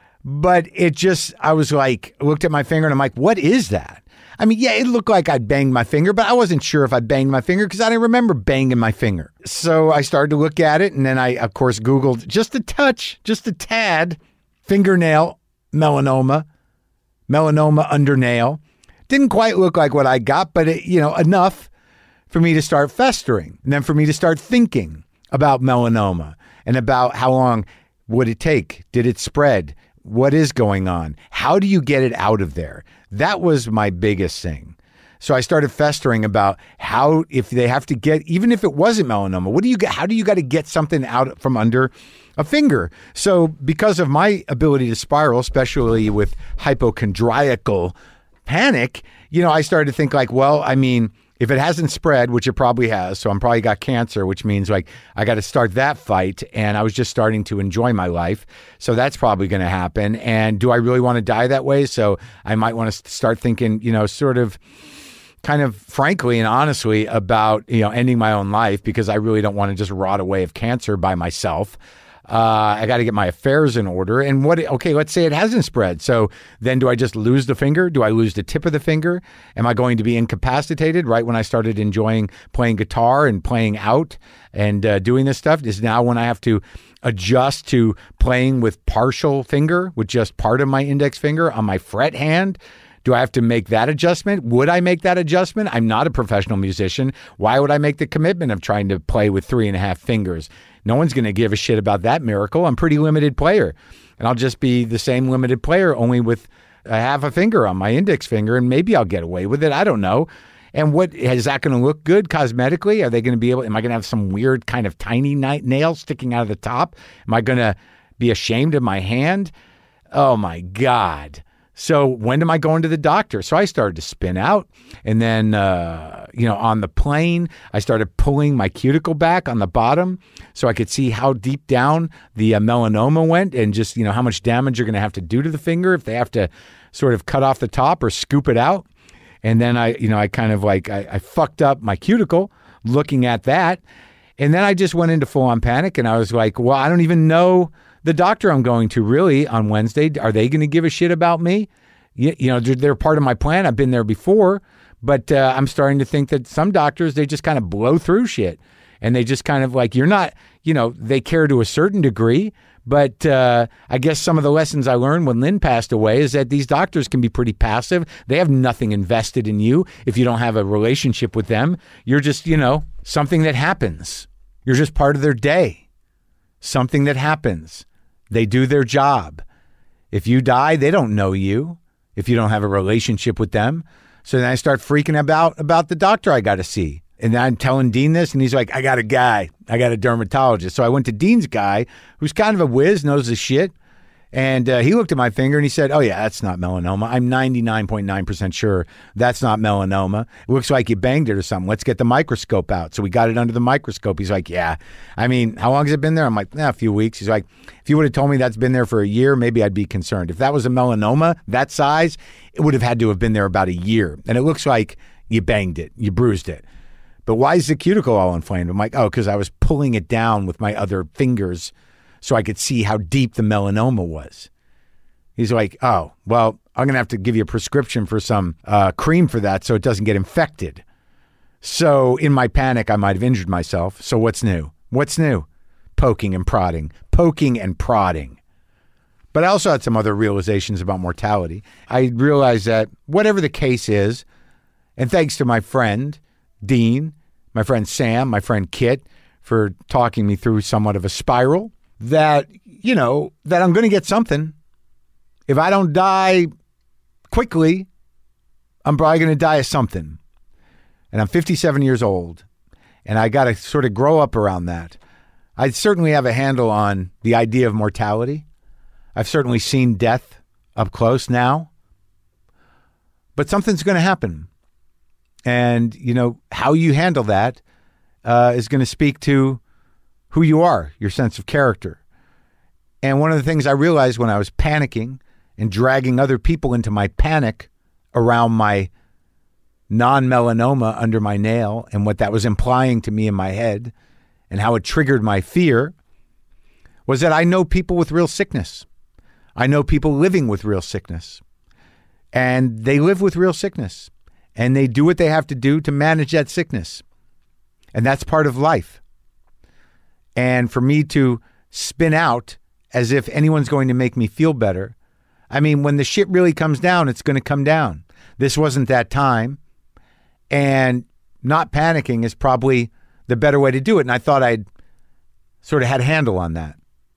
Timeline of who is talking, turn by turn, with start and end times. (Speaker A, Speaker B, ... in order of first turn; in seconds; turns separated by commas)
Speaker A: 0.2-16.4, Speaker A: 17.3-21.7, Speaker A: 22.3-47.9, Speaker A: 48.5-64.6, Speaker A: 65.4-119.5, Speaker A: 120.1-138.8, Speaker A: 139.4-143.8, Speaker A: 144.4-175.8, Speaker A: 176.6-179.4, Speaker A: 180.1-193.7, Speaker A: 194.3-216.6, Speaker A: 217.2-224.5, Speaker A: 225.4-230.8, Speaker A: 231.6-238.4, Speaker A: 239.3-244.2, Speaker A: 245.0-254.5, Speaker A: 255.5-256.5, Speaker A: 257.3-257.9, Speaker A: 258.8-260.2, Speaker A: 261.1-262.4, Speaker A: 263.1-265.0, Speaker A: 265.6-268.4, Speaker A: 269.1-271.7, Speaker A: 273.4-274.5, Speaker A: 275.4-277.6, Speaker A: 278.2-279.6, Speaker A: 280.3-282.0, Speaker A: 283.0-288.9, Speaker A: 289.9-293.9, Speaker A: 294.5-295.9, Speaker A: 297.1-298.9, Speaker A: 299.6-301.4, Speaker A: 302.3-307.0, Speaker A: 307.9-309.0, Speaker A: 310.4-314.9, Speaker A: 315.5-319.6, Speaker A: 320.5-324.6, Speaker A: 325.6-326.8